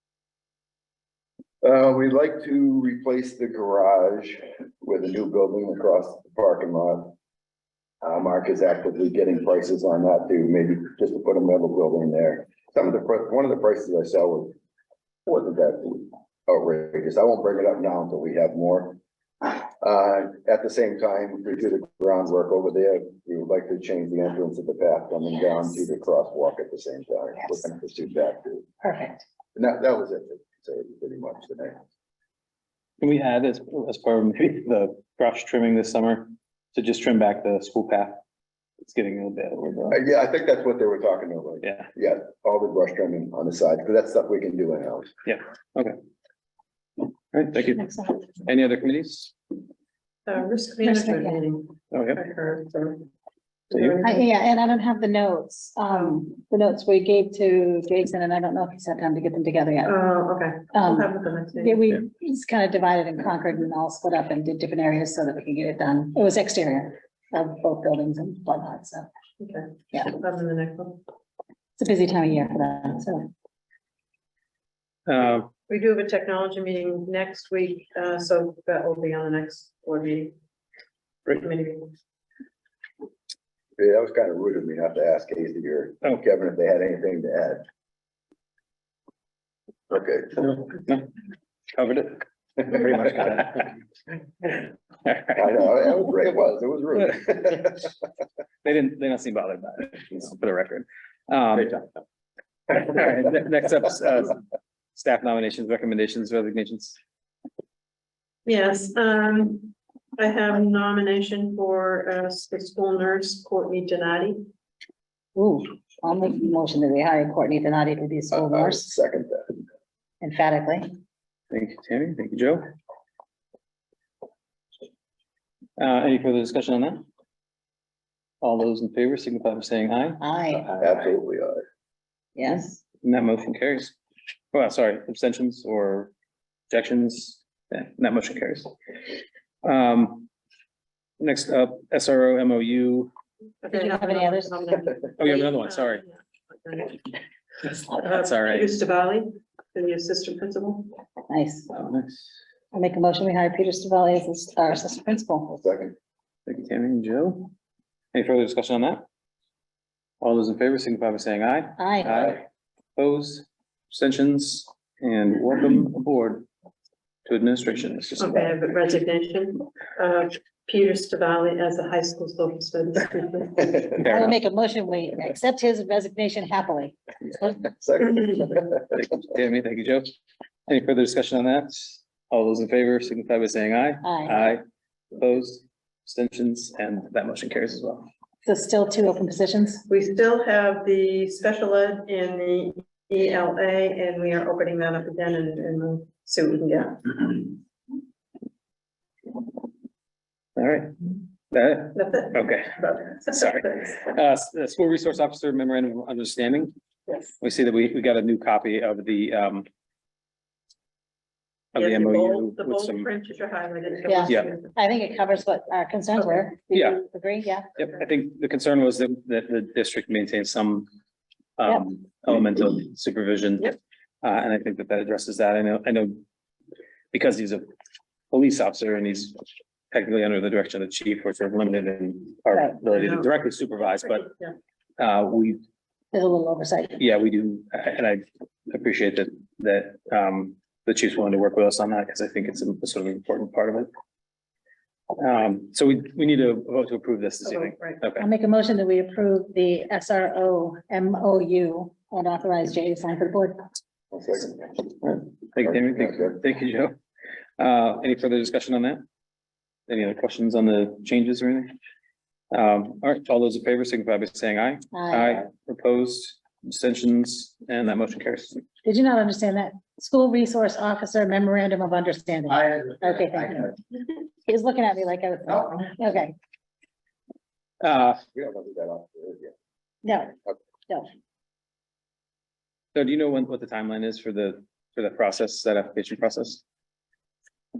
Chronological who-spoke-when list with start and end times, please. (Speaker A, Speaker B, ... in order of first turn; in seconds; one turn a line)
Speaker A: 1.6-7.1
Speaker A: 8.0-14.6
Speaker A: 15.2-19.0
Speaker A: 19.8-28.6
Speaker B: 28.8-29.2
Speaker A: 29.5-31.8
Speaker C: 33.0-38.2
Speaker C: 38.8-40.0
Speaker A: 39.9-45.1
Speaker C: 41.6-41.9
Speaker C: 45.2-46.0
Speaker C: 47.3-47.8
Speaker B: 47.7-48.3
Speaker C: 48.4-49.3
Speaker D: 50.2-53.0
Speaker B: 50.8-51.4
Speaker C: 51.9-52.2
Speaker D: 53.7-54.2
Speaker B: 54.0-60.0
Speaker D: 59.9-61.8
Speaker B: 60.7-69.1
Speaker D: 69.4-71.0
Speaker B: 71.8-73.3
Speaker C: 75.1-75.5
Speaker D: 75.7-80.3
Speaker D: 81.3-81.9
Speaker A: 83.8-87.6
Speaker A: 89.9-90.7
Speaker C: 91.7-93.7
Speaker C: 95.0-95.4
Speaker A: 95.3-97.9
Speaker C: 98.6-101.8
Speaker C: 102.7-104.4
Speaker C: 104.9-107.0
Speaker D: 108.5-114.4
Speaker B: 115.3-118.9
Speaker A: 118.3-119.6
Speaker B: 120.2-120.9
Speaker C: 121.5-122.7
Speaker C: 125.8-127.0
Speaker C: 128.4-130.2
Speaker B: 130.2-130.7
Speaker A: 130.6-131.6
Speaker B: 132.3-132.8
Speaker C: 133.0-133.9
Speaker C: 134.5-136.1
Speaker C: 136.7-138.7
Speaker C: 139.6-140.3
Speaker C: 141.2-143.1
Speaker D: 143.6-147.0
Speaker B: 143.7-144.8
Speaker C: 145.2-146.0
Speaker C: 147.7-148.7
Speaker D: 148.0-150.9
Speaker B: 151.3-151.7
Speaker C: 151.7-152.3
Speaker B: 152.7-155.5
Speaker A: 155.5-155.9
Speaker C: 156.5-157.5
Speaker C: 158.1-159.0
Speaker C: 160.2-162.4
Speaker B: 161.8-162.3
Speaker C: 162.9-166.5
Speaker C: 167.2-168.5
Speaker D: 168.2-173.9
Speaker C: 174.0-174.3
Speaker B: 174.0-176.9
Speaker A: 177.4-178.8
Speaker C: 178.9-180.1
Speaker C: 180.7-184.6
Speaker B: 184.0-184.4
Speaker C: 185.1-188.1
Speaker B: 188.4-189.8
Speaker D: 189.9-197.5
Speaker C: 200.6-202.7
Speaker D: 201.9-204.0
Speaker C: 203.2-206.7
Speaker C: 207.4-209.7
Speaker C: 211.7-213.1
Speaker D: 211.7-214.7
Speaker B: 214.0-217.8
Speaker C: 216.7-217.0
Speaker C: 217.8-220.9
Speaker C: 221.6-226.2
Speaker C: 227.1-227.6
Speaker C: 228.3-229.4
Speaker C: 229.9-234.2
Speaker B: 232.5-232.8
Speaker D: 232.9-233.3
Speaker D: 234.2-234.6
Speaker C: 235.0-235.6
Speaker B: 236.1-237.0
Speaker C: 237.0-243.9
Speaker C: 245.2-248.3
Speaker D: 247.4-248.0
Speaker B: 248.2-253.6
Speaker A: 254.1-254.8
Speaker C: 255.0-256.9
Speaker A: 255.7-256.4
Speaker C: 257.6-259.0
Speaker C: 259.9-261.7
Speaker C: 262.5-268.6
Speaker B: 264.9-265.4
Speaker B: 268.8-276.3
Speaker C: 277.8-278.2
Speaker A: 278.3-279.5
Speaker B: 280.0-280.3
Speaker C: 282.9-286.6